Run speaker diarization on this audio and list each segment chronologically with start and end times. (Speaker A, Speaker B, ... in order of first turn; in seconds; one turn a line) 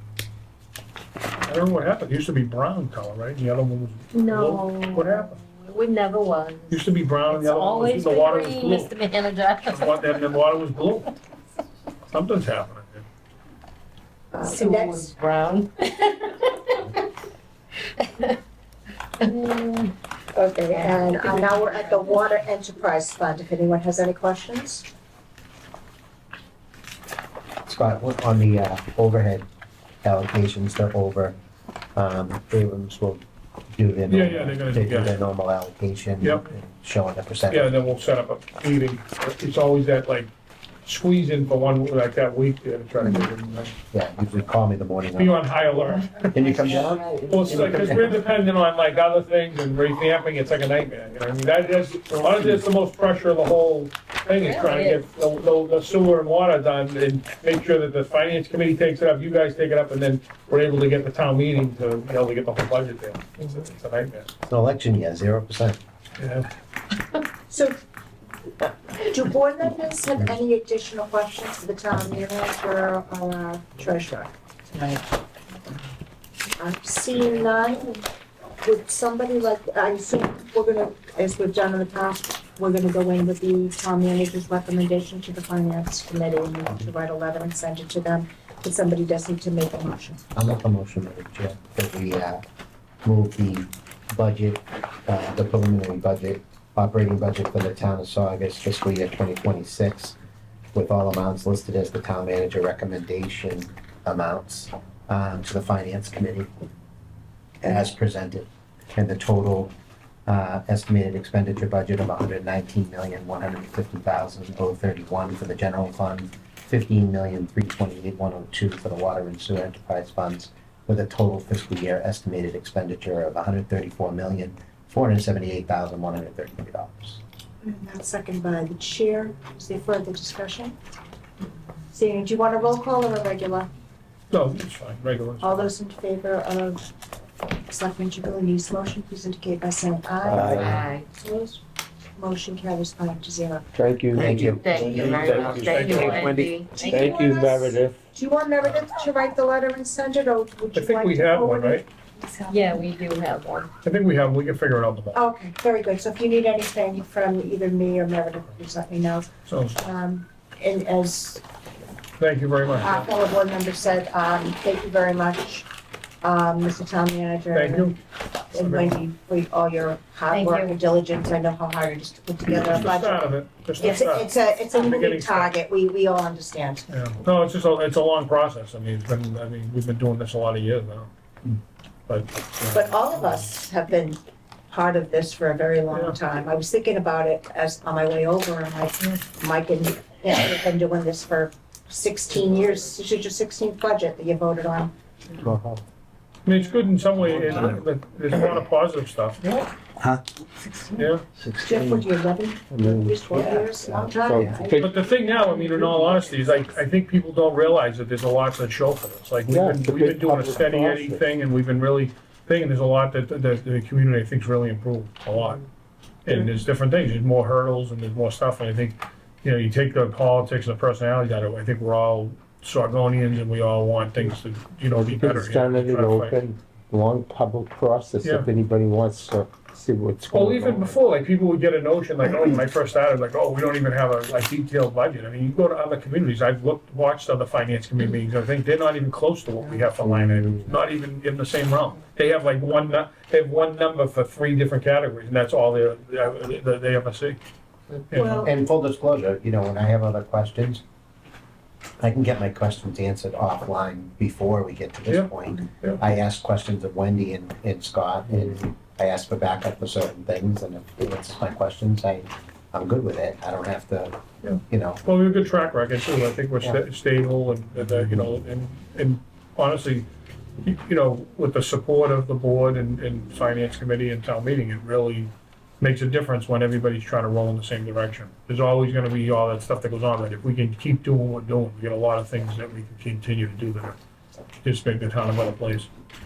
Speaker A: 1.4-5.4
Speaker B: 4.1-10.2
Speaker A: 6.7-8.9
Speaker A: 9.7-11.2
Speaker A: 12.1-13.0
Speaker C: 14.3-15.1
Speaker B: 14.4-16.8
Speaker B: 18.0-18.4
Speaker B: 19.2-19.9
Speaker C: 20.3-24.9
Speaker B: 20.8-21.4
Speaker D: 27.6-29.4
Speaker D: 30.0-31.4
Speaker D: 31.9-33.2
Speaker D: 33.7-37.8
Speaker A: 34.1-35.2
Speaker A: 36.2-36.5
Speaker A: 37.5-40.3
Speaker A: 40.8-43.7
Speaker D: 43.9-45.4
Speaker A: 45.1-46.7
Speaker D: 46.3-48.1
Speaker B: 46.4-47.8
Speaker A: 47.3-64.3
Speaker B: 54.4-55.0
Speaker D: 64.5-65.8
Speaker A: 66.2-66.5
Speaker C: 67.5-67.8
Speaker C: 68.6-75.0
Speaker C: 76.6-78.0
Speaker C: 78.6-90.2
Speaker D: 90.3-92.4
Speaker D: 93.0-100.2
Speaker D: 100.7-106.5
Speaker D: 107.6-109.7
Speaker D: 110.3-127.2
Speaker C: 127.6-130.7
Speaker C: 131.9-133.7
Speaker A: 134.3-135.7
Speaker C: 135.4-136.9
Speaker C: 137.7-141.6
Speaker E: 140.3-140.7
Speaker D: 140.3-140.8
Speaker B: 140.6-141.0
Speaker C: 142.2-143.7
Speaker E: 143.7-148.0
Speaker D: 144.1-146.5
Speaker B: 144.5-147.1
Speaker A: 145.6-146.4
Speaker C: 146.7-152.8
Speaker A: 150.7-151.8
Speaker B: 152.5-153.7
Speaker A: 153.8-155.2
Speaker C: 155.1-159.3
Speaker A: 159.4-159.8
Speaker C: 159.8-161.4
Speaker A: 162.2-163.1
Speaker C: 162.8-165.7
Speaker C: 166.2-167.9
Speaker A: 167.5-167.9
Speaker C: 168.5-173.2
Speaker A: 168.6-168.9
Speaker B: 170.3-170.8
Speaker A: 172.6-175.5
Speaker C: 173.8-176.9
Speaker A: 176.9-181.1
Speaker A: 182.1-182.6
Speaker C: 182.6-194.9
Speaker E: 195.4-195.8
Speaker A: 196.4-199.4
Speaker A: 200.9-201.2
Speaker E: 201.4-202.1
Speaker C: 201.6-204.8
Speaker E: 202.7-204.9
Speaker D: 203.8-204.7
Speaker A: 204.8-215.6
Speaker E: 209.5-211.2
Speaker A: 216.2-226.4
Speaker E: 224.9-231.0
Speaker A: 228.2-228.5
Speaker A: 230.3-247.4
Speaker E: 240.0-240.7
Speaker A: 248.1-248.5
Speaker C: 248.1-248.5
Speaker D: 248.4-250.8
Speaker D: 252.0-264.2
Speaker A: 255.1-256.0
Speaker A: 264.4-270.1
Speaker D: 264.7-265.0
Speaker A: 270.6-284.0
Speaker A: 284.6-285.9